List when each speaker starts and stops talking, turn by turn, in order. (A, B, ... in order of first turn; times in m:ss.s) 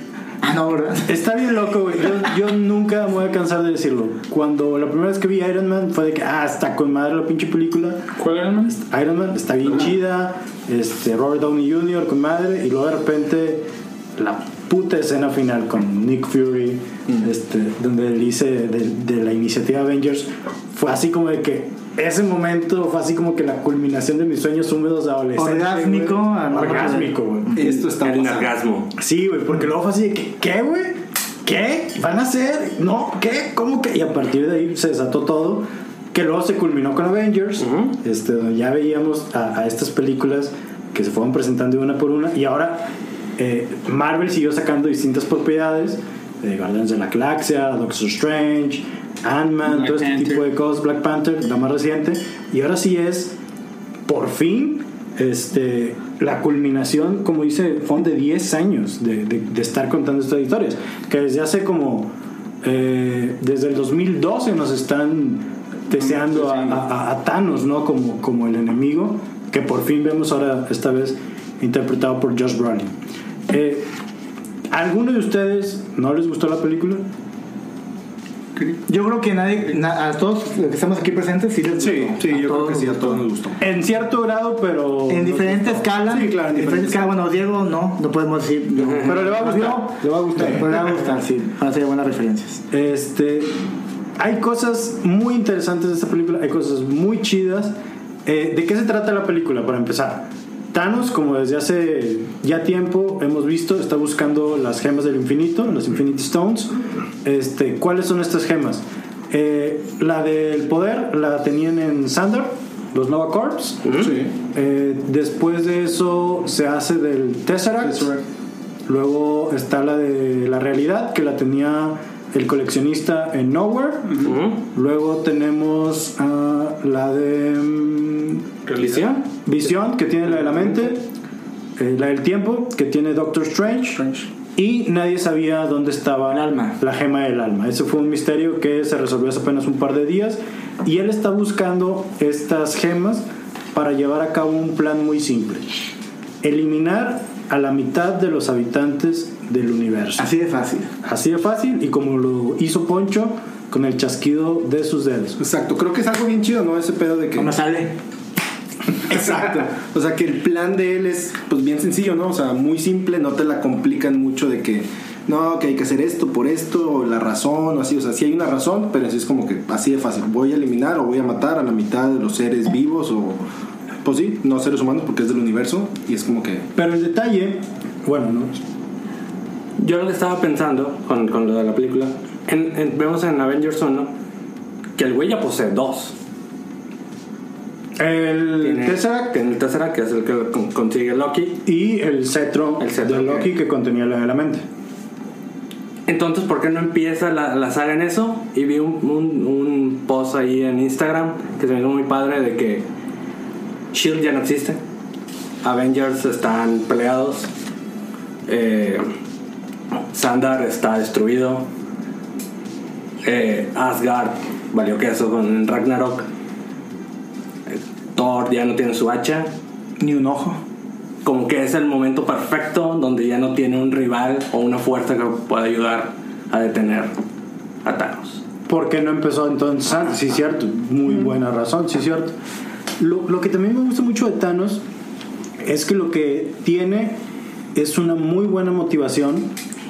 0:00.4-0:01.1 A
0:01.1-0:08.1 B
0:08.2-0:08.8 C
0:08.7-0:27.5 B
0:25.4-0:27.2 A
0:27.5-0:28.5 D
0:27.6-0:28.9 E
0:29.0-0:53.4 B
0:37.6-0:37.9 E
0:49.6-0:50.4 C
0:54.1-1:13.0 B
1:05.9-1:06.8 C
1:13.5-1:13.9 B
1:14.7-1:17.0 B
1:18.9-1:23.2 A
1:21.8-1:23.6 D
1:23.6-1:25.9 B
1:25.1-1:32.6 A
1:26.0-1:27.1 D
1:28.9-1:29.2 E
1:29.0-1:31.0 B
1:32.7-1:33.6 B
1:34.2-1:53.9 B
1:53.8-1:54.1 E
1:54.0-1:54.3 D
1:54.5-1:58.1 B
1:58.9-2:08.5 B
2:04.2-2:04.6 E
2:08.7-2:09.2 E
2:09.3-2:11.1 B
2:11.8-2:25.9 B
2:16.3-2:16.8 A
2:26.4-2:30.3 B
2:30.2-2:30.9 A
2:31.0-2:35.4 B
2:35.4-2:37.5 D
2:37.4-2:38.0 A
2:39.1-2:39.7 A
2:39.1-2:53.4 D
2:54.0-2:56.7 D
2:56.8-2:58.6 B
2:59.8-3:04.1 E
3:05.0-3:06.1 E
3:08.0-3:09.4 B
3:08.6-3:11.6 E
3:11.7-3:14.6 B
3:12.8-3:13.5 E
3:16.1-3:22.9 E
3:23.9-3:24.8 E
3:25.6-3:27.5 E
3:28.5-3:29.0 E
3:30.1-3:31.7 E
3:33.2-3:36.3 E
3:37.7-3:39.5 E
3:40.0-3:40.6 A
3:41.2-3:47.1 E
3:47.8-3:48.4 E
3:48.7-3:52.4 B
3:53.0-3:54.8 B
3:55.6-3:57.2 B
3:57.7-3:59.6 B